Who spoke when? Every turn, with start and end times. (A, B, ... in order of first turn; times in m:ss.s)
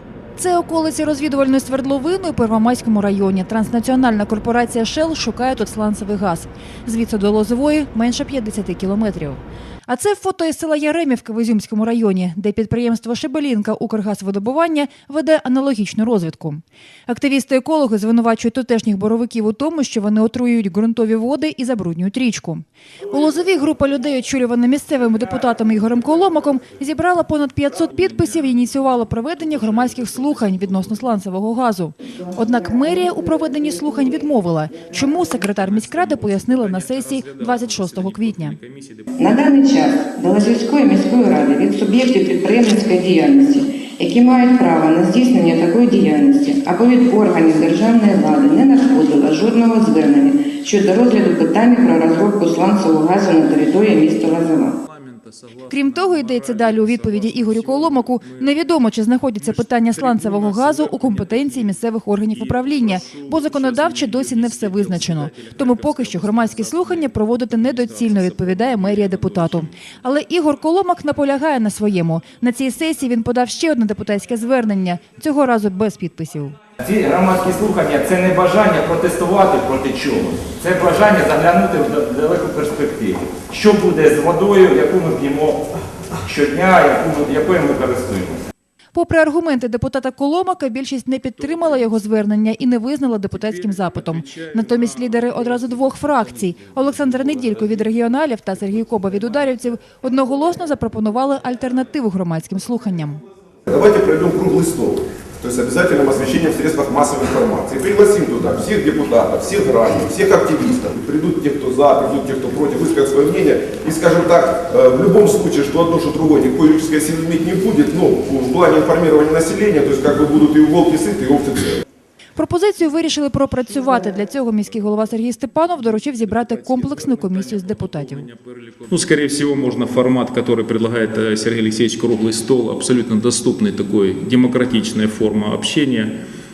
0:00.4-0:38.6 A
0:28.0-0:28.6 B
0:29.4-0:31.0 B
0:35.6-0:39.1 B
0:39.2-0:54.7 C
0:40.0-0:46.4 D
0:47.1-0:52.8 D
0:53.8-0:54.5 D
0:54.9-0:58.5 B
0:55.7-1:16.6 A
0:59.4-1:01.7 B
1:02.3-1:09.7 B
1:16.8-1:25.6 D
1:26.2-1:28.5 D
1:28.9-1:43.2 A
1:33.4-1:37.8 B
1:38.6-1:39.5 B
1:43.7-2:01.8 E
2:02.4-2:08.3 A
2:06.1-2:16.2 B